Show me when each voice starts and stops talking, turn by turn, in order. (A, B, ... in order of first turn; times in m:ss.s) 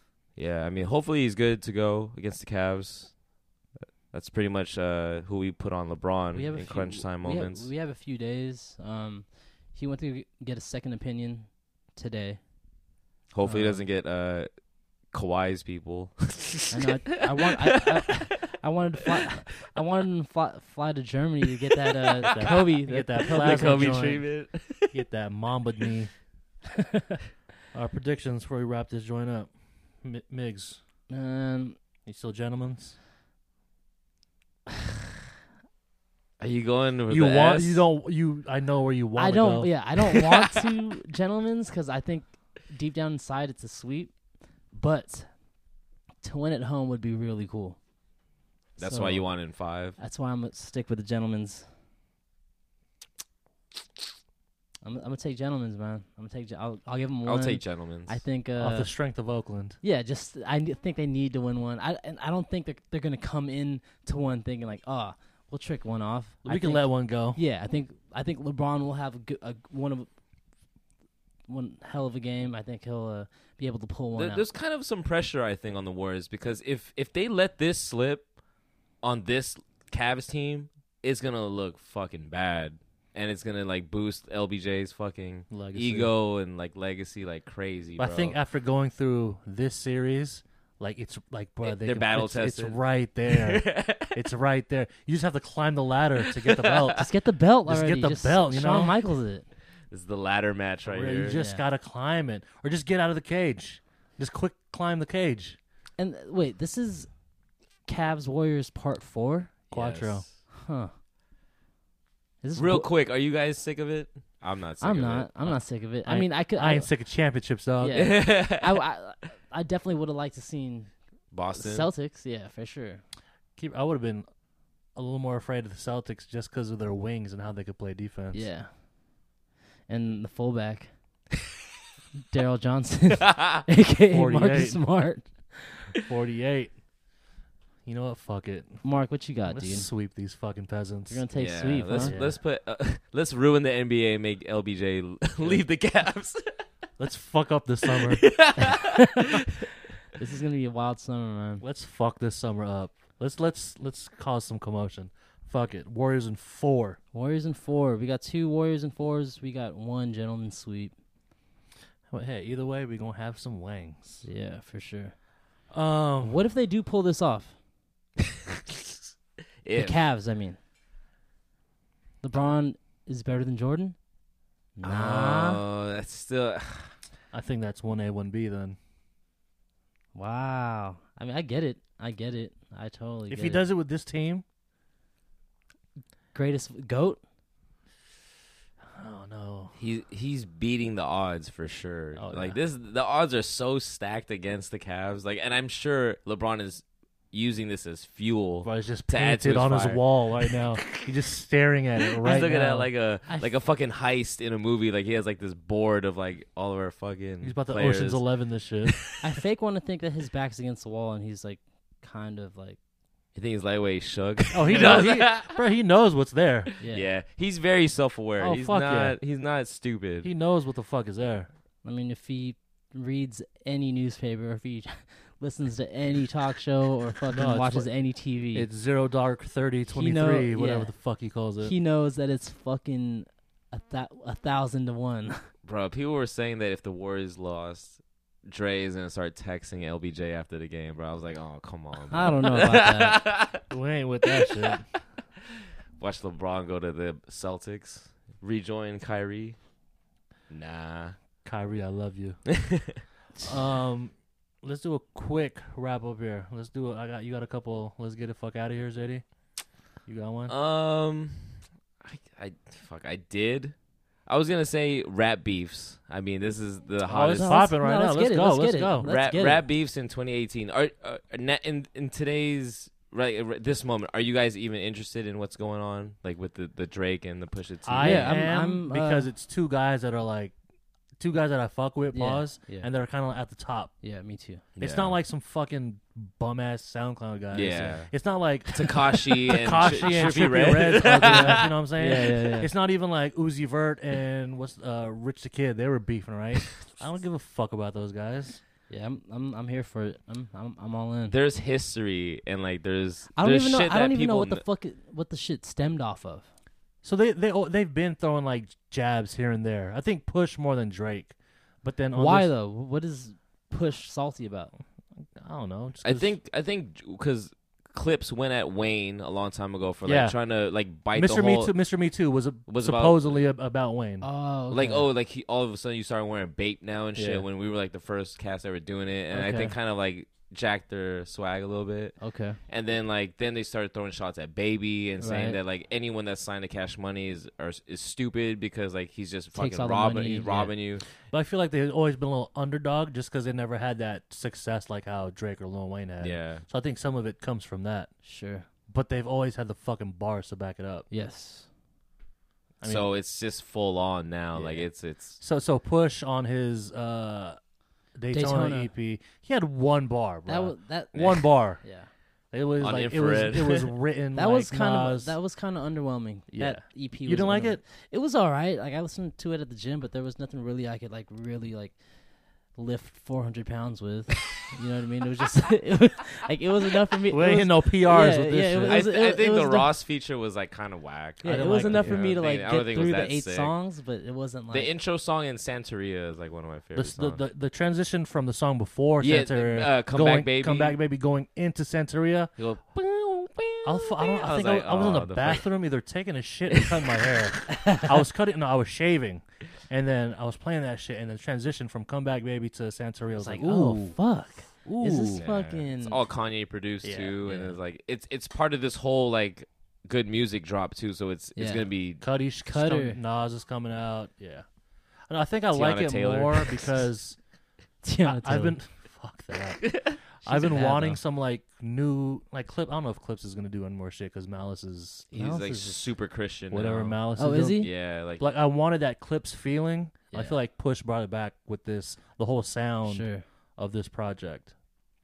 0:00.4-0:03.2 A
0:04.1-0:07.7 A
0:06.3-0:12.4 B
0:13.3-0:14.5 A
0:13.4-0:13.8 B
0:15.1-0:18.2 A
0:16.7-0:23.9 B
0:22.2-0:22.5 A
0:22.3-0:26.1 C
0:23.3-0:25.0 A
0:27.7-0:30.8 C
0:31.1-0:31.8 B
0:32.1-0:33.0 C
0:36.4-0:37.9 A
0:37.1-0:39.7 C
0:39.2-0:44.2 B
0:44.7-0:45.3 B
0:46.2-0:47.8 B
0:48.8-0:50.0 A
0:48.8-0:49.3 B
0:50.0-0:51.7 B
0:54.8-0:58.9 B
0:57.2-0:58.2 A
0:58.6-0:59.8 C
0:59.8-1:10.1 B
1:06.4-1:07.4 C
1:11.5-1:14.4 B
1:14.2-1:18.3 A
1:19.0-1:28.4 A
1:25.5-1:26.1 C
1:28.0-1:37.1 C
1:31.6-1:34.2 A
1:36.3-1:36.9 A
1:37.0-1:39.5 B
1:37.7-1:39.0 C
1:39.9-1:41.4 A
1:40.9-1:45.6 C
1:41.3-1:41.6 B
1:46.0-1:47.1 B
1:47.9-1:49.6 B
1:49.7-1:50.2 C
1:49.7-1:50.3 A
1:50.5-1:50.9 B
1:52.4-1:52.9 B
1:52.6-1:55.6 A
1:54.8-1:56.9 B
1:56.0-1:58.2 C
1:57.8-2:03.0 B
1:58.0-1:58.8 A
2:01.3-2:01.9 A
2:03.6-2:04.3 C
2:05.0-2:08.5 C
2:08.3-2:08.7 B
2:09.9-2:10.9 B
2:12.3-2:15.9 B
2:13.3-2:13.6 A
2:14.1-2:14.9 C
2:16.0-2:16.8 C
2:17.8-2:18.8 C
2:18.8-2:19.9 B
2:19.4-2:21.2 C
2:21.1-2:22.2 B
2:21.4-2:26.6 A
2:21.9-2:22.4 C
2:27.0-2:28.4 C
2:28.0-2:29.3 A
2:28.7-2:29.0 B
2:30.2-2:31.6 B
2:31.6-2:37.0 C
2:37.1-2:40.9 B
2:42.1-2:44.2 C
2:44.2-2:45.2 B
2:45.7-2:46.4 C
2:46.2-2:47.6 B
2:49.6-2:50.0 A
2:49.8-2:50.6 B
2:52.2-2:54.0 B
2:54.8-2:55.6 B
2:54.8-2:56.9 A
2:57.3-2:58.8 C
3:00.2-3:03.6 B
3:03.3-3:04.4 C
3:06.3-3:07.2 B
3:09.0-3:09.7 C
3:09.7-3:21.0 A
3:12.2-3:12.6 C
3:18.6-3:22.9 C
3:22.2-3:28.2 A
3:27.4-3:29.1 C
3:28.9-3:29.1 A
3:29.2-3:32.8 B
3:33.4-3:35.6 A
3:34.5-3:36.7 C
3:36.8-3:37.1 B
3:36.8-3:40.3 A
3:38.4-3:39.2 C
3:40.2-3:41.5 C
3:41.8-3:48.7 B
3:47.3-3:47.9 C
3:48.5-3:51.8 C
3:49.9-3:50.9 B
3:51.6-3:55.4 B
3:55.6-4:03.6 A
4:02.1-4:03.2 B
4:03.7-4:04.9 C
4:04.4-4:04.8 A
4:06.0-4:09.6 A
4:10.5-4:11.2 A
4:11.4-4:12.4 C
4:12.6-4:13.0 A
4:13.4-4:19.2 C
4:20.1-4:20.5 C
4:20.5-4:23.8 A
4:24.3-4:27.6 A
4:27.0-4:29.1 C
4:27.4-4:29.6 B
4:29.0-4:38.3 A
4:37.8-4:40.6 C
4:38.0-4:39.3 B
4:41.2-4:43.9 C
4:42.1-4:42.9 B
4:44.0-4:44.6 B
4:44.8-4:45.2 A
4:44.8-4:58.6 C
4:47.5-4:48.1 A
4:48.7-4:51.7 A
4:51.2-4:52.7 B
4:58.9-5:01.4 B
5:01.3-5:04.6 A
5:03.4-5:06.5 B
5:07.0-5:12.5 C
5:12.2-5:14.7 B
5:15.3-5:16.3 C
5:16.0-5:21.7 A
5:20.0-5:20.4 C
5:21.1-5:24.3 C
5:22.7-5:23.4 A
5:24.2-5:25.0 B
5:24.7-5:32.2 A
5:27.2-5:27.4 C
5:29.3-5:29.7 B
5:32.2-5:32.6 B
5:32.7-5:41.0 A
5:35.2-5:35.6 B
5:39.6-5:40.7 B
5:41.3-5:48.1 C
5:46.2-5:46.6 A
5:48.2-5:48.7 B
5:48.9-5:51.1 C
5:51.1-5:51.7 B
5:52.8-5:53.1 C
5:52.8-5:55.4 A
5:54.5-5:57.6 C
5:58.2-6:01.8 C
5:58.3-5:58.9 B
6:00.5-6:02.1 B
6:01.2-6:01.4 A
6:02.5-6:05.4 C
6:02.8-6:03.9 A
6:04.4-6:12.0 B
6:06.5-6:07.8 C
6:12.8-6:19.9 B
6:17.3-6:19.0 C
6:18.9-6:23.7 A
6:21.4-6:24.9 B
6:21.4-6:22.4 C
6:24.7-6:27.4 A
6:27.0-6:32.5 C
6:29.2-6:31.0 A
6:32.6-6:35.7 A
6:33.8-6:44.2 C
6:37.8-6:38.1 B
6:43.4-6:46.2 B
6:44.8-6:45.4 C
6:45.4-6:52.2 A
6:47.0-6:47.4 C
6:47.4-6:47.8 B
6:51.6-6:51.9 B
6:52.2-6:54.7 C
6:52.7-6:53.2 B
6:55.3-6:57.4 C
6:55.7-6:57.0 A
6:58.0-6:58.8 B
6:58.2-7:06.0 C
6:59.9-7:00.2 A
7:00.5-7:01.2 B
7:05.3-7:07.2 A
7:05.4-7:05.8 B
7:06.7-7:14.7 C
7:07.4-7:07.9 B
7:07.8-7:08.5 A
7:10.3-7:10.6 B
7:13.1-7:13.4 B